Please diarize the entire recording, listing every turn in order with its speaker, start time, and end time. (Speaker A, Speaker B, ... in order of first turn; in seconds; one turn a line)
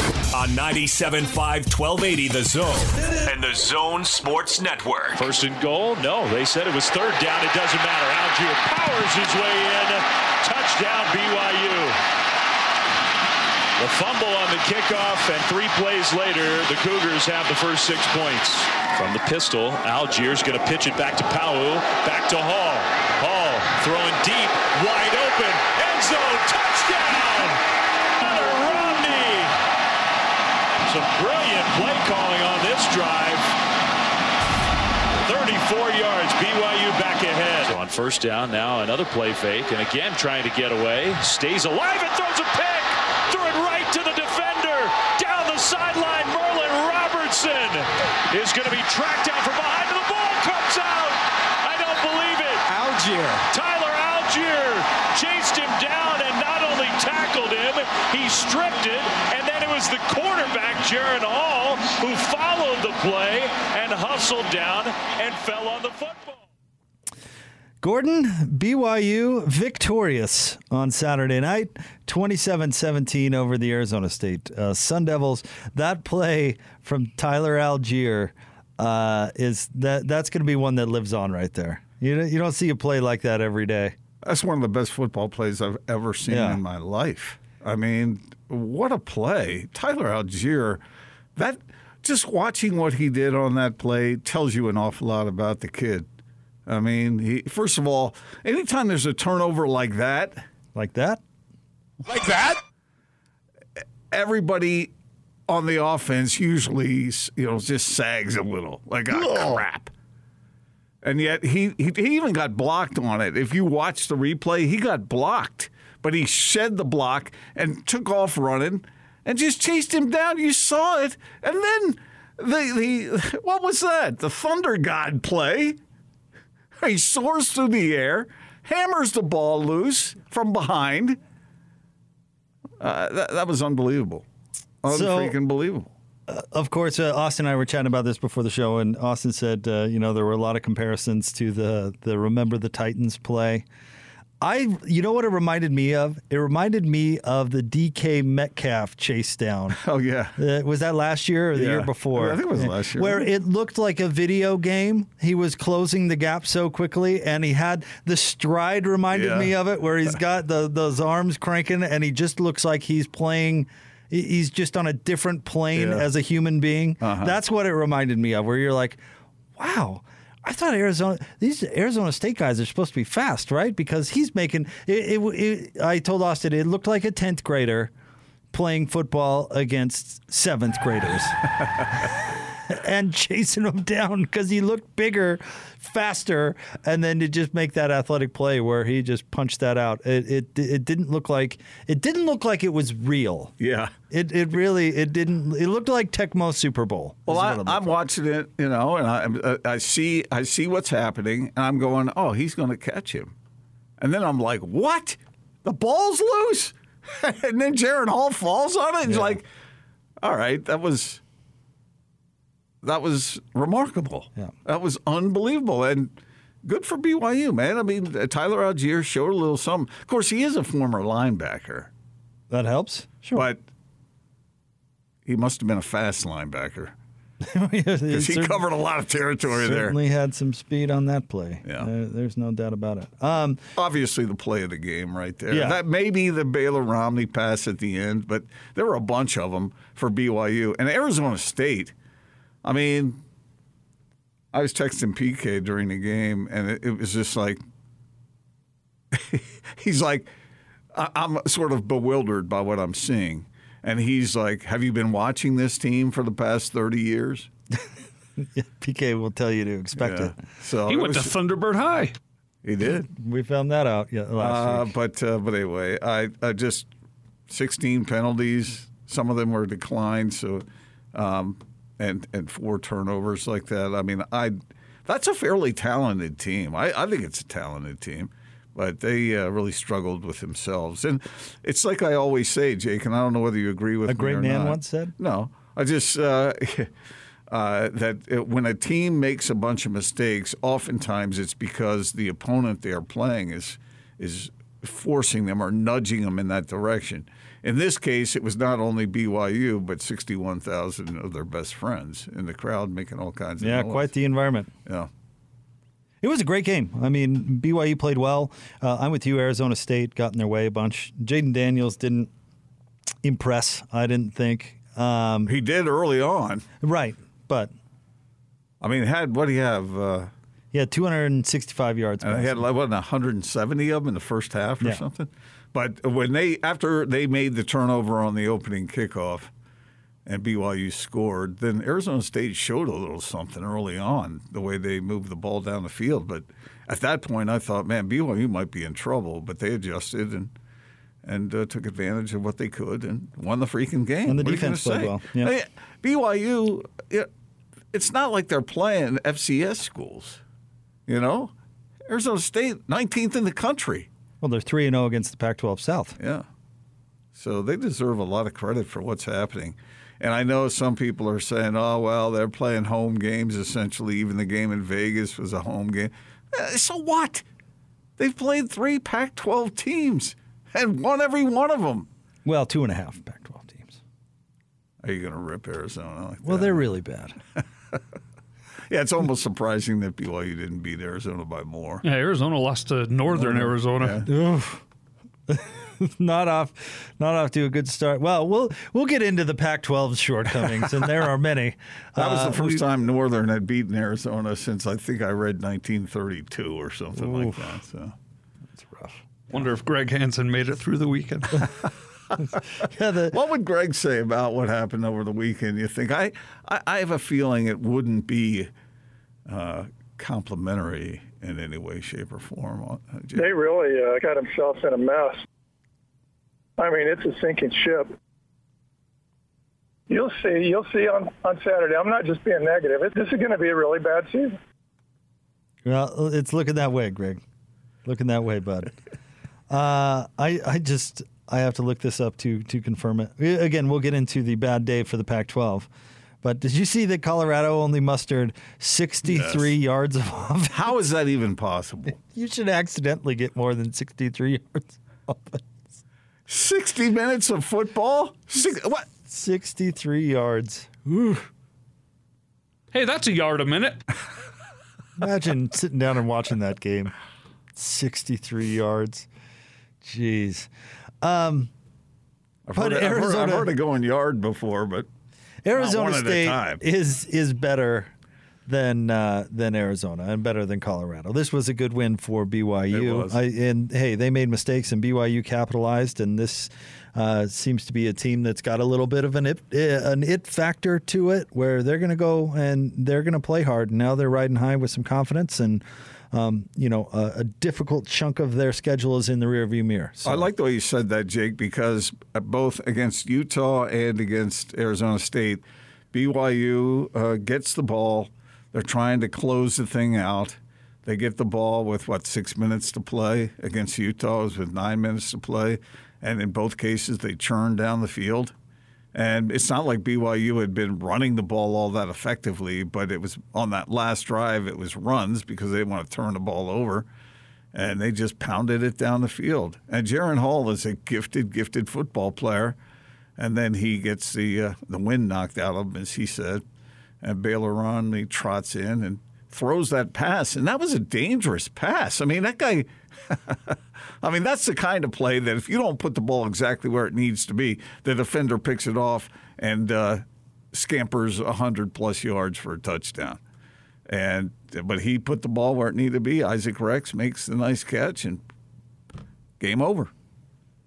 Speaker A: 0.3-5.2
Speaker B: 5.1-12.0
Speaker B: 13.8-27.6
Speaker B: 28.2-29.5
Speaker B: 30.9-33.5
Speaker B: 35.2-52.7
Speaker B: 53.5-66.4
Speaker C: 67.8-83.9
Speaker D: 84.2-90.8
Speaker C: 86.3-86.6
Speaker D: 91.3-96.1
Speaker D: 96.7-100.4
Speaker C: 100.7-101.2
Speaker D: 104.1-104.9
Speaker D: 105.5-109.9
Speaker C: 109.1-109.6
Speaker D: 111.0-125.8
Speaker D: 126.8-131.2
Speaker D: 132.8-134.2
Speaker D: 134.8-135.9
Speaker C: 134.9-135.3
Speaker C: 136.3-143.6
Speaker C: 144.4-149.8
Speaker D: 149.8-150.4
Speaker C: 150.4-169.0
Speaker D: 151.5-153.3
Speaker D: 159.1-159.5
Speaker D: 165.7-166.1
Speaker D: 167.0-167.3
Speaker C: 169.6-177.9
Speaker C: 178.5-181.4
Speaker C: 182.0-193.5
Speaker D: 193.6-193.9
Speaker C: 194.1-197.9
Speaker D: 197.3-203.3
Speaker D: 204.0-209.4
Speaker C: 209.1-209.4
Speaker D: 210.2-211.2
Speaker D: 212.8-221.9
Speaker C: 222.5-223.4
Speaker D: 223.3-223.6
Speaker D: 225.2-226.9
Speaker C: 227.4-228.6
Speaker D: 228.1-230.0
Speaker C: 229.5-233.6
Speaker D: 233.8-241.9
Speaker C: 235.5-235.8
Speaker D: 242.6-243.2
Speaker D: 244.5-247.6
Speaker D: 249.1-250.3
Speaker D: 250.9-257.5
Speaker C: 258.4-260.4
Speaker D: 260.0-261.4
Speaker E: 260.9-262.1
Speaker D: 262.6-263.1
Speaker C: 263.1-264.9
Speaker D: 264.4-266.9
Speaker D: 267.5-286.9
Speaker C: 284.1-285.1
Speaker D: 287.5-304.1
Speaker C: 303.6-304.7
Speaker D: 304.8-305.1
Speaker C: 306.2-312.3
Speaker C: 313.2-315.5
Speaker D: 315.4-316.7
Speaker C: 316.8-317.7
Speaker D: 318.8-320.3
Speaker C: 320.7-322.6
Speaker D: 322.2-329.5
Speaker D: 330.2-340.5
Speaker D: 341.2-347.3
Speaker C: 344.2-345.5
Speaker D: 347.9-350.4
Speaker D: 351.1-351.5
Speaker D: 352.1-354.1
Speaker C: 354.4-356.2
Speaker D: 356.2-356.5
Speaker D: 357.3-367.4
Speaker D: 368.2-372.1
Speaker C: 372.4-374.0
Speaker D: 375.0-376.8
Speaker C: 376.4-377.4
Speaker D: 378.9-382.0
Speaker E: 382.0-384.2
Speaker D: 383.3-384.2
Speaker C: 384.3-384.8
Speaker C: 385.5-392.8
Speaker D: 392.1-398.1
Speaker C: 398.8-399.2
Speaker E: 399.5-401.9
Speaker C: 402.8-403.4
Speaker D: 403.3-408.7
Speaker D: 409.5-413.5
Speaker F: 413.4-415.4
Speaker F: 416.8-418.1
Speaker F: 420.1-424.6
Speaker C: 425.9-427.4
Speaker C: 428.0-428.9
Speaker C: 429.7-435.9
Speaker C: 436.4-440.8
Speaker D: 439.2-439.7
Speaker D: 440.7-442.2
Speaker C: 442.2-445.6
Speaker D: 446.5-449.1
Speaker C: 449.3-451.5
Speaker E: 452.9-454.0
Speaker C: 455.2-457.1
Speaker C: 457.8-459.3
Speaker C: 460.0-460.7
Speaker C: 461.2-461.7
Speaker D: 462.6-465.1
Speaker C: 462.7-463.7
Speaker C: 465.6-468.1
Speaker D: 465.7-466.8
Speaker C: 468.6-490.5
Speaker D: 472.9-473.4
Speaker D: 490.2-508.5
Speaker D: 509.1-517.1
Speaker D: 517.7-522.8
Speaker D: 523.4-526.6
Speaker D: 527.2-543.4
Speaker D: 544.1-548.4
Speaker D: 549.6-550.1